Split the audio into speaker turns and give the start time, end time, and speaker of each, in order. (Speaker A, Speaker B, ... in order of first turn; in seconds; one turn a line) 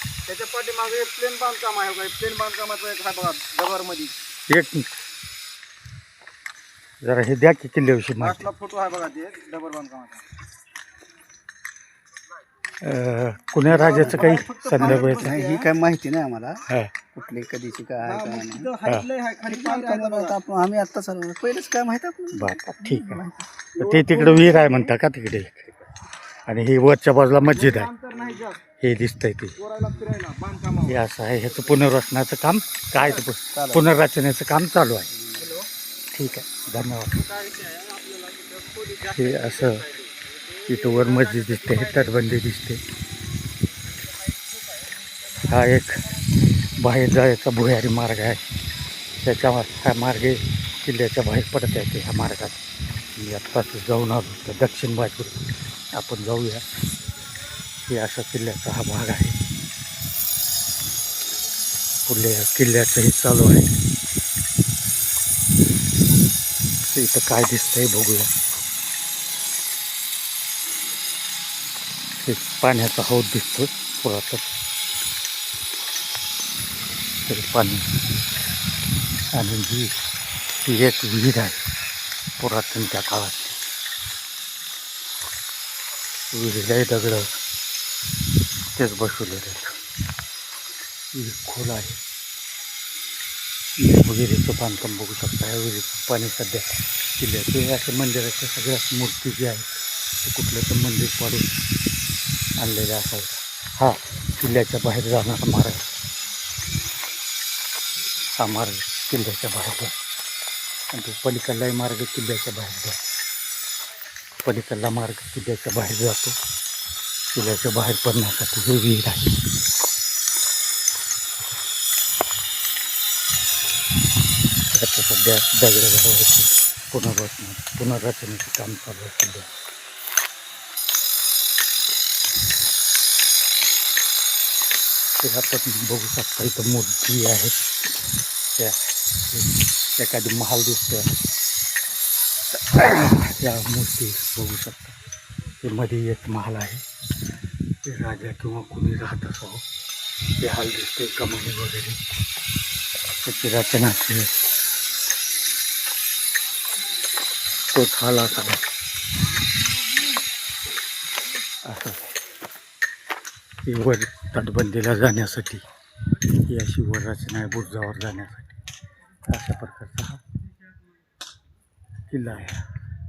Speaker A: 0.3-4.2
Speaker B: 4.5-4.9
Speaker B: 7.0-8.5
Speaker A: 8.2-10.2
Speaker B: 12.8-15.4
Speaker A: 13.7-15.7
Speaker C: 14.0-16.6
Speaker B: 16.7-16.9
Speaker C: 17.1-18.7
Speaker A: 18.1-20.4
Speaker C: 19.4-23.5
Speaker B: 22.3-23.2
Speaker B: 23.8-25.7
Speaker A: 23.8-24.8
Speaker B: 26.5-27.9
Speaker A: 27.5-28.6
Speaker B: 28.8-29.6
Speaker A: 29.6-31.7
Speaker B: 30.9-35.1
Speaker C: 33.5-33.9
Speaker A: 35.4-35.7
Speaker B: 36.1-37.3
Speaker A: 37.1-42.1
Speaker B: 39.1-39.9
Speaker B: 40.7-42.8
Speaker B: 45.4-48.4
Speaker B: 49.2-52.6
Speaker B: 53.2-56.6
Speaker B: 57.9-59.4
Speaker B: 62.1-63.8
Speaker B: 66.9-68.3
Speaker B: 72.2-74.5
Speaker B: 77.3-77.9
Speaker B: 79.3-79.9
Speaker B: 80.6-81.6
Speaker B: 82.4-83.6
Speaker B: 86.3-87.3
Speaker B: 88.8-89.8
Speaker B: 91.1-92.0
Speaker B: 93.8-101.6
Speaker B: 102.6-105.9
Speaker B: 108.4-110.0
Speaker B: 110.9-113.1
Speaker B: 114.4-116.3
Speaker B: 117.3-119.4
Speaker B: 124.7-129.6
Speaker B: 135.2-137.7
Speaker B: 138.6-141.1
Speaker B: 142.5-144.9
Speaker B: 145.6-146.8
Speaker B: 147.8-149.7
Speaker B: 150.4-152.0
Speaker B: 153.2-154.3
Speaker B: 157.7-158.7
Speaker B: 161.6-162.2
Speaker B: 163.7-165.6
Speaker B: 166.4-168.6
Speaker B: 169.3-170.2
Speaker B: 172.1-172.6